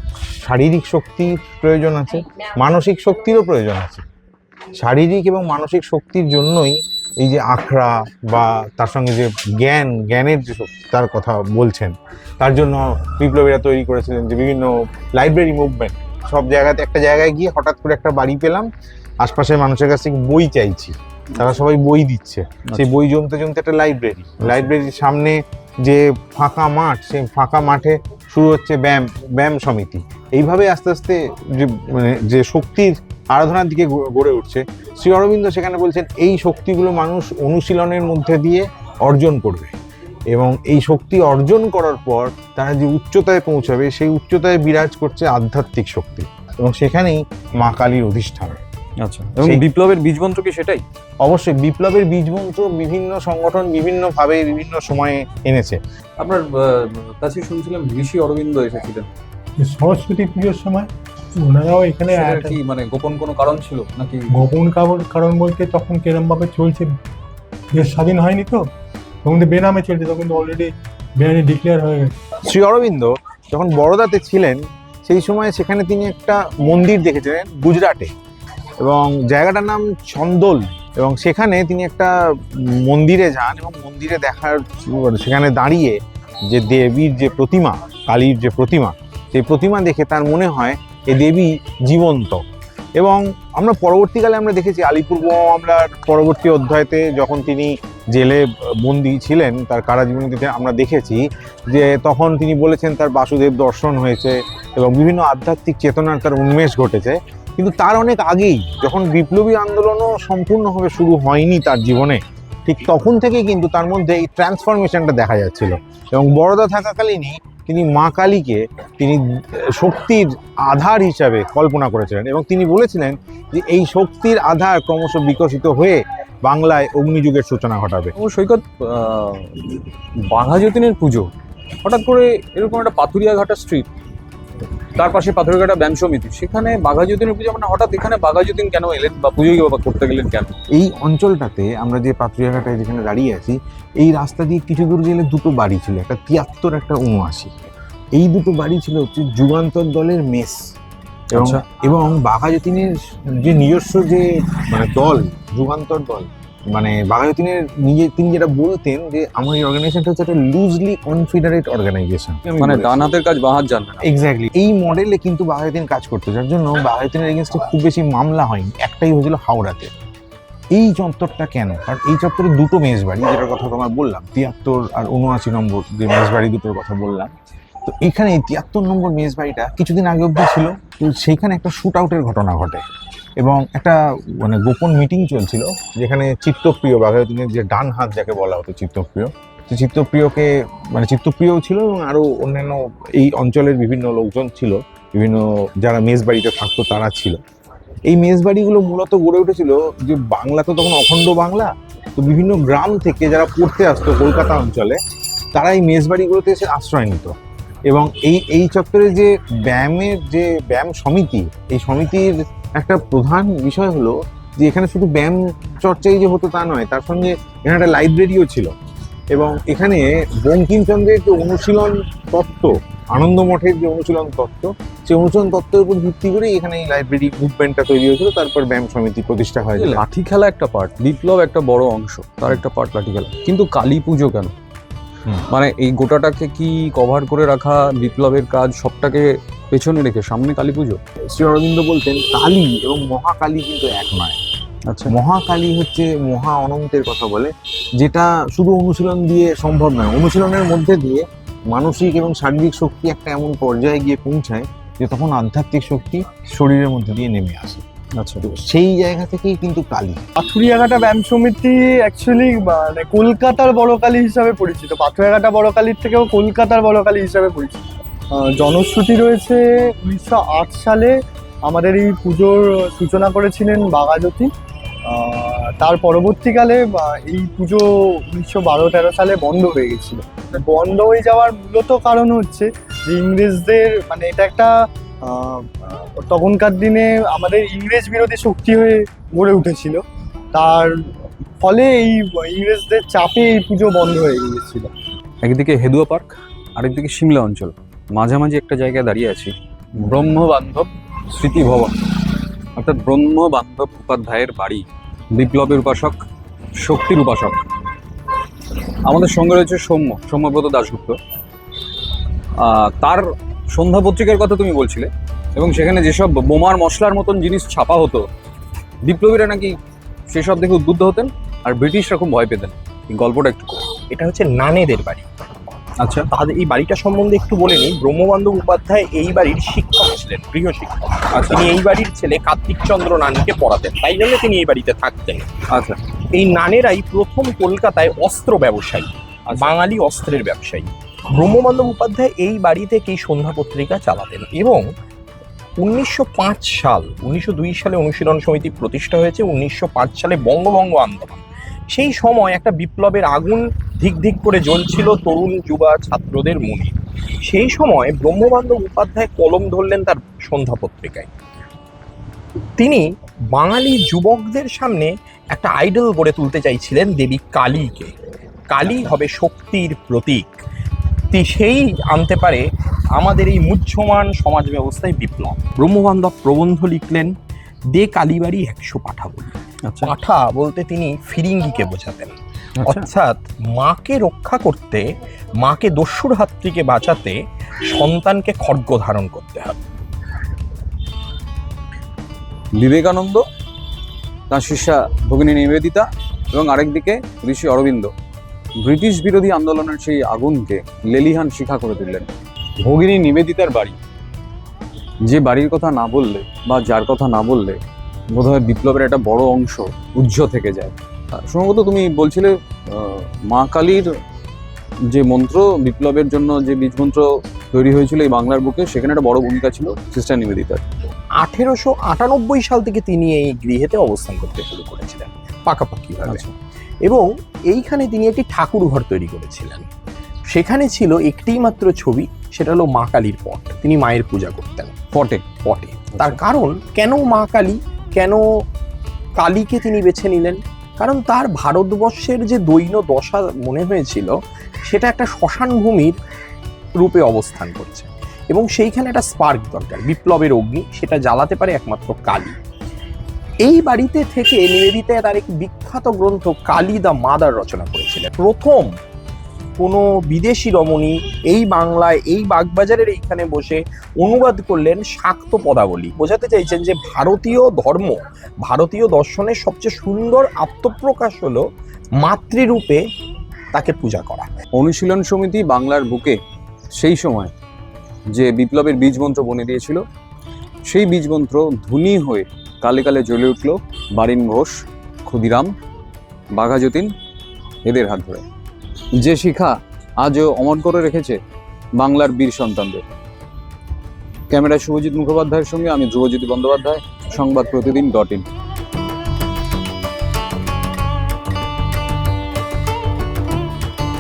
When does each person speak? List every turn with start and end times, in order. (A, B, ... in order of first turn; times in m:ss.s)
0:00.3-0:04.0 A
0:04.8-0:18.7 A
0:19.2-0:39.8 A
0:22.7-0:23.0 B
0:24.4-0:24.7 B
0:40.3-0:48.6 A
0:49.0-0:50.8 B
0:51.2-0:55.8 A
0:56.2-0:59.1 B
0:59.6-1:00.9 C
1:01.4-1:02.6 C
1:02.1-1:04.3 B
1:04.3-1:06.9 C
1:07.7-1:08.7 C
1:09.2-1:12.2 C
1:12.4-1:18.1 A
1:18.8-1:26.0 A
1:26.5-1:32.4 A
1:33.0-2:08.1 A
2:08.2-2:11.3 B
2:11.8-2:13.9 B
2:15.0-2:20.6 B
2:20.8-2:30.6 A
2:31.3-2:31.6 B
2:31.4-2:43.0 A
2:42.5-2:44.0 B
2:44.0-2:49.9 A
2:50.7-2:57.3 A
2:57.8-3:02.8 A
3:03.4-3:17.4 A
3:18.1-3:25.0 A
3:25.5-3:27.3 A
3:27.9-3:38.7 A
3:39.3-3:50.0 A
3:49.8-3:54.5 B
3:55.5-4:01.0 B
4:01.3-4:04.4 A
4:04.9-4:05.1 B
4:05.1-4:17.8 A
4:18.2-4:18.4 B
4:18.4-4:20.2 A
4:20.4-4:34.5 D
4:35.1-4:44.7 D
4:45.2-4:50.0 D
4:50.5-4:51.0 D
4:51.6-4:54.9 D
4:55.4-5:01.9 B
5:02.8-5:06.2 B
5:06.8-5:07.6 B
5:09.0-5:11.2 B
5:12.6-5:18.2 B
5:19.0-5:19.7 B
5:20.3-5:23.8 B
5:24.1-5:25.3 E
5:26.0-5:26.3 B
5:26.3-5:35.5 E
5:35.7-5:36.0 B
5:36.3-5:44.9 E
5:39.5-5:39.7 B
5:45.8-5:56.9 E
5:57.5-6:01.3 E
6:02.8-6:08.1 E
6:08.7-6:10.6 E
6:11.3-6:17.3 E
6:17.9-6:25.1 E
6:19.8-6:20.1 B
6:22.8-6:23.1 B
6:25.6-6:27.4 E
6:27.9-6:29.8 E
6:32.8-6:33.4 B
6:34.5-6:38.1 B
6:38.8-6:42.3 B
6:42.8-6:44.0 B
6:45.3-6:47.8 B
6:48.3-6:54.1 B
6:55.1-7:00.8 B
7:01.4-7:06.4 E
7:06.2-7:06.5 B
7:07.0-7:09.9 E
7:10.5-7:14.9 E
7:15.2-7:15.4 B
7:15.6-7:18.4 E
7:16.1-7:16.4 B
7:19.4-7:24.3 E
7:24.9-7:26.2 E
7:27.0-7:32.6 E
7:33.6-7:38.9 E
7:39.8-7:51.6 E
7:52.2-7:53.0 E
7:53.7-7:54.5 E
7:54.7-7:56.4 B
7:57.0-7:57.5 B
7:58.3-8:00.0 B
8:00.9-8:05.7 B
8:06.5-8:07.1 B
8:07.9-8:08.4 B
8:09.2-8:11.4 B
8:12.0-8:13.0 B
8:14.5-8:18.5 B